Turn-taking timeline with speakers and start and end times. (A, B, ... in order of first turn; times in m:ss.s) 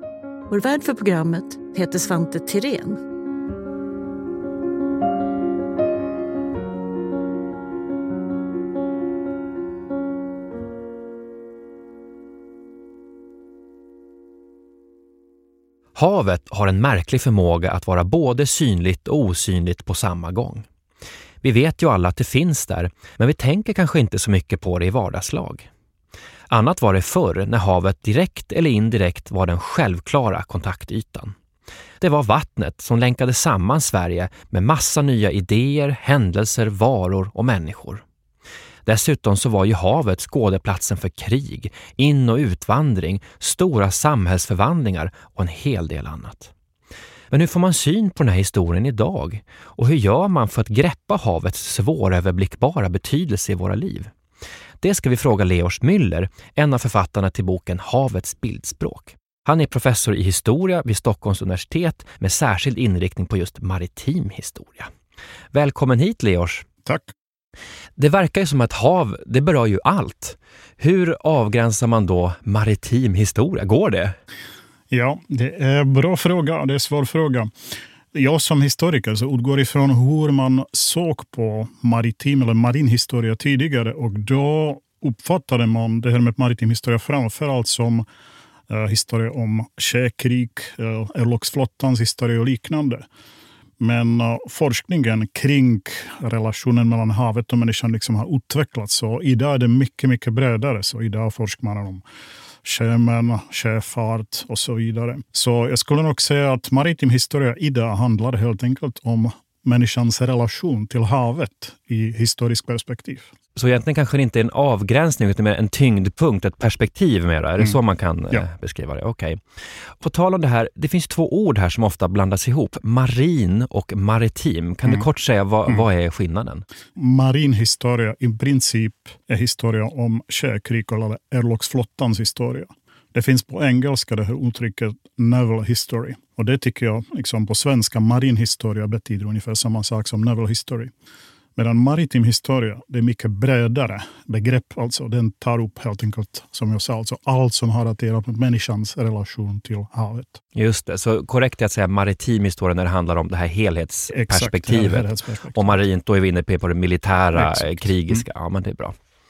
0:00.5-0:03.0 A
0:15.9-0:20.7 B
0:21.4-0:25.7 B
0:26.5-0:31.4 B
0:32.0-0:38.0 B
0:38.8-0:46.5 B
0:47.3-0:54.1 B
0:54.8-1:04.9 B
1:05.5-1:06.6 B
1:06.8-1:07.1 C
1:08.0-1:14.2 B
1:14.9-1:17.5 C
1:18.1-1:28.0 C
1:28.7-1:33.0 C
1:33.8-1:42.0 C
1:42.6-1:53.3 C
1:53.5-1:59.4 B
2:00.0-2:06.6 B
2:07.0-2:20.9 C
2:21.6-2:30.4 C
2:30.5-2:38.9 B
2:34.1-2:35.8 C
2:37.4-2:38.2 C